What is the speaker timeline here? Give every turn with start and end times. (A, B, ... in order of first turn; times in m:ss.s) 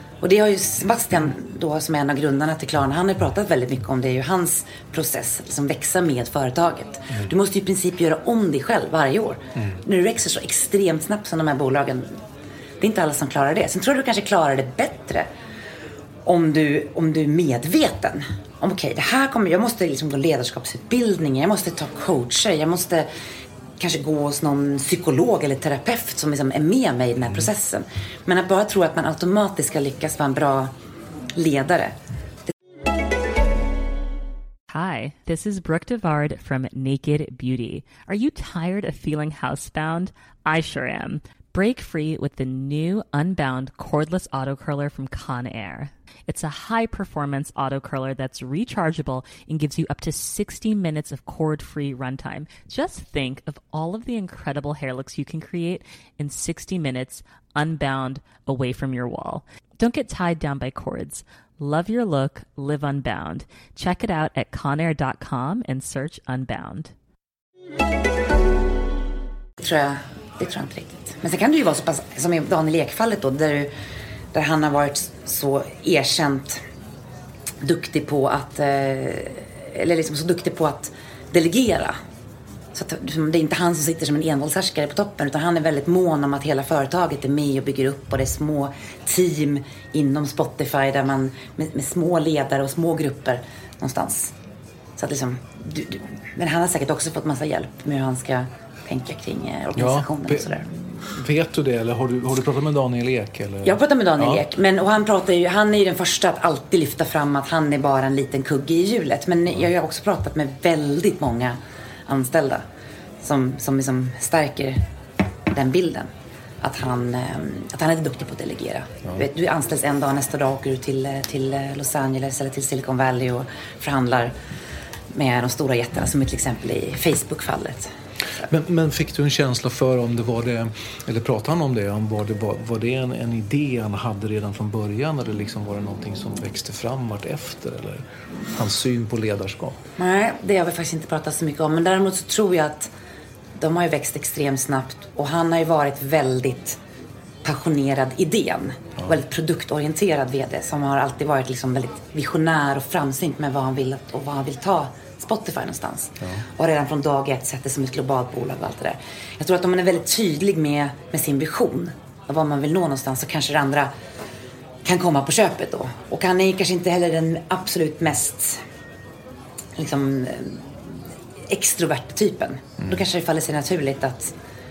0:00.2-0:12.2 A
0:12.8-0:15.3 A
0:16.2-0:23.1 A
0:23.8-0:30.7 A
0:31.3-0:31.9 A
0:34.7-1:06.9 B
1:09.6-1:13.7 A
1:14.3-1:16.6 A
1:17.6-1:22.0 A
1:22.8-1:34.3 A
1:35.0-1:40.7 A
1:39.8-1:44.4 C
1:43.6-1:52.6 A
1:53.2-1:54.8 A
1:55.5-1:56.1 A
1:56.6-2:04.3 A
2:05.1-2:08.5 A
2:08.5-2:19.8 C
2:20.0-2:22.9 A
2:23.6-2:26.8 A
2:27.4-2:43.9 A
2:44.8-2:48.6 A
2:49.8-2:50.9 A
2:51.5-2:54.3 A